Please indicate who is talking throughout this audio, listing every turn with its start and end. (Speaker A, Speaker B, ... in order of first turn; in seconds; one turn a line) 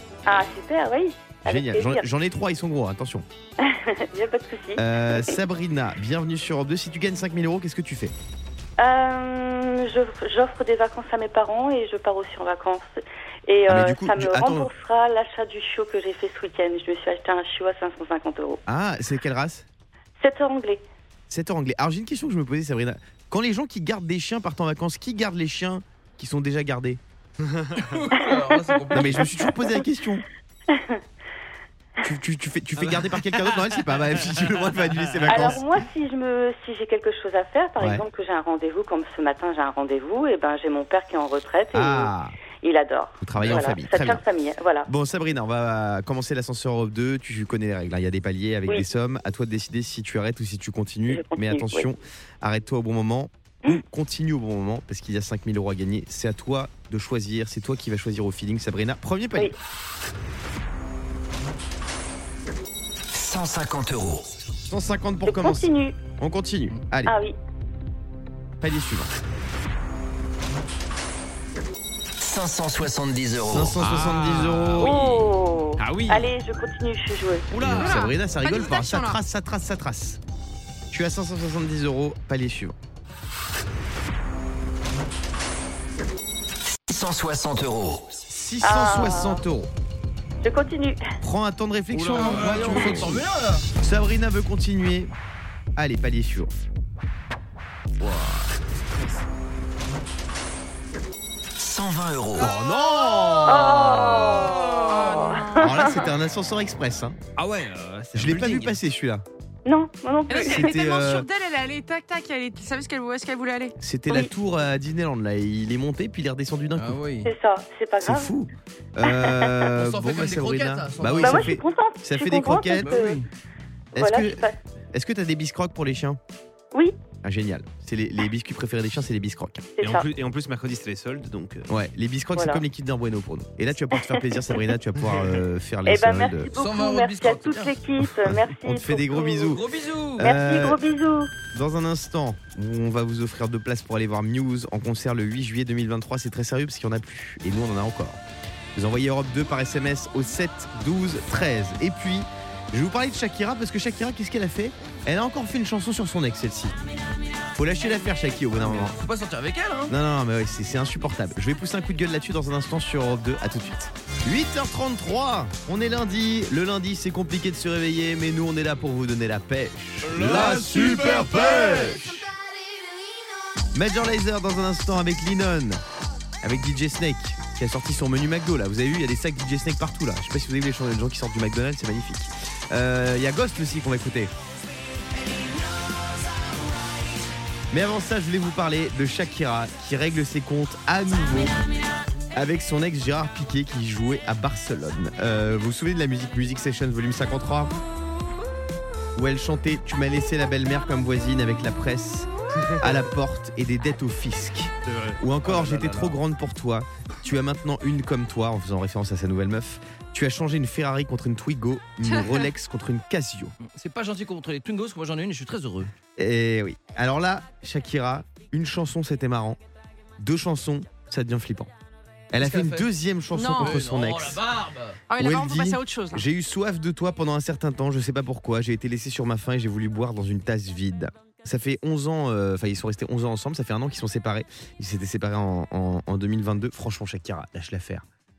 Speaker A: 0.2-2.0
Speaker B: 1.4-3.2
Speaker A: 3.6-5.3
Speaker B: 4.8-8.1
Speaker A: 8.8-18.6
Speaker B: 13.7-14.7
Speaker B: 18.7-19.6
Speaker A: 20.2-20.8
Speaker B: 21.3-27.0
Speaker C: 27.5-27.8
Speaker D: 27.8-29.4
Speaker B: 28.9-30.2
Speaker A: 30.7-31.0
Speaker B: 32.0-35.6
Speaker C: 33.0-33.7
Speaker C: 35.0-35.5
Speaker A: 35.2-44.9
Speaker B: 37.8-38.0
Speaker B: 41.7-42.4
Speaker B: 43.2-44.2
Speaker C: 43.4-43.7
Speaker B: 44.9-59.5
Speaker A: 51.1-51.9
Speaker E: 63.1-64.3
Speaker B: 64.7-67.1
Speaker A: 65.2-66.0
Speaker A: 67.0-67.3
Speaker B: 68.6-69.1
Speaker E: 72.2-73.8
Speaker B: 73.5-75.0
Speaker C: 73.8-76.3
Speaker A: 74.8-77.5
Speaker C: 77.5-77.8
Speaker B: 77.6-80.2
Speaker F: 77.6-79.2
Speaker B: 80.9-82.8
Speaker E: 86.9-88.1
Speaker B: 88.3-89.7
Speaker A: 88.6-89.4
Speaker A: 90.4-91.0
Speaker B: 91.2-93.2
Speaker C: 91.9-93.1
Speaker D: 92.0-93.7
Speaker B: 93.8-95.1
Speaker B: 95.8-96.5
Speaker B: 98.0-98.3
Speaker E: 101.6-102.5
Speaker B: 102.4-104.4
Speaker A: 103.4-105.9
Speaker F: 104.7-106.0
Speaker B: 105.6-107.2
Speaker C: 107.3-108.8
Speaker B: 108.1-109.2
Speaker A: 109.7-110.7
Speaker F: 110.3-113.8
Speaker B: 110.5-111.3
Speaker B: 113.8-117.0
Speaker D: 116.8-117.3
Speaker A: 117.2-118.3
Speaker B: 118.0-123.2
Speaker A: 119.0-119.5
Speaker D: 119.7-121.5
Speaker A: 121.2-123.2
Speaker D: 122.8-123.3
Speaker A: 123.9-124.5
Speaker B: 123.9-126.2
Speaker B: 127.2-129.7
Speaker A: 129.8-130.1
Speaker C: 129.8-131.7
Speaker B: 131.7-136.5
Speaker A: 132.3-132.6
Speaker A: 134.0-134.6
Speaker A: 135.8-139.5
Speaker D: 136.5-137.8
Speaker B: 138.2-139.6
Speaker D: 139.3-140.3
Speaker B: 140.2-140.8
Speaker A: 140.2-141.3
Speaker B: 141.5-148.2
Speaker B: 148.7-156.8
Speaker B: 157.5-159.0
Speaker D: 158.5-159.9
Speaker B: 159.9-172.3
Speaker C: 170.0-171.9
Speaker B: 173.7-175.8
Speaker B: 176.4-184.3
Speaker B: 187.7-191.6
Speaker B: 192.3-197.7
Speaker B: 199.2-213.5
Speaker C: 202.6-202.9
Speaker C: 204.9-206.1
Speaker F: 212.0-212.5
Speaker D: 213.6-215.9
Speaker B: 216.2-219.6
Speaker B: 220.2-221.7
Speaker B: 222.3-224.4
Speaker D: 222.4-222.9
Speaker F: 223.3-223.8
Speaker D: 223.6-225.0
Speaker F: 225.1-226.3
Speaker B: 225.2-238.0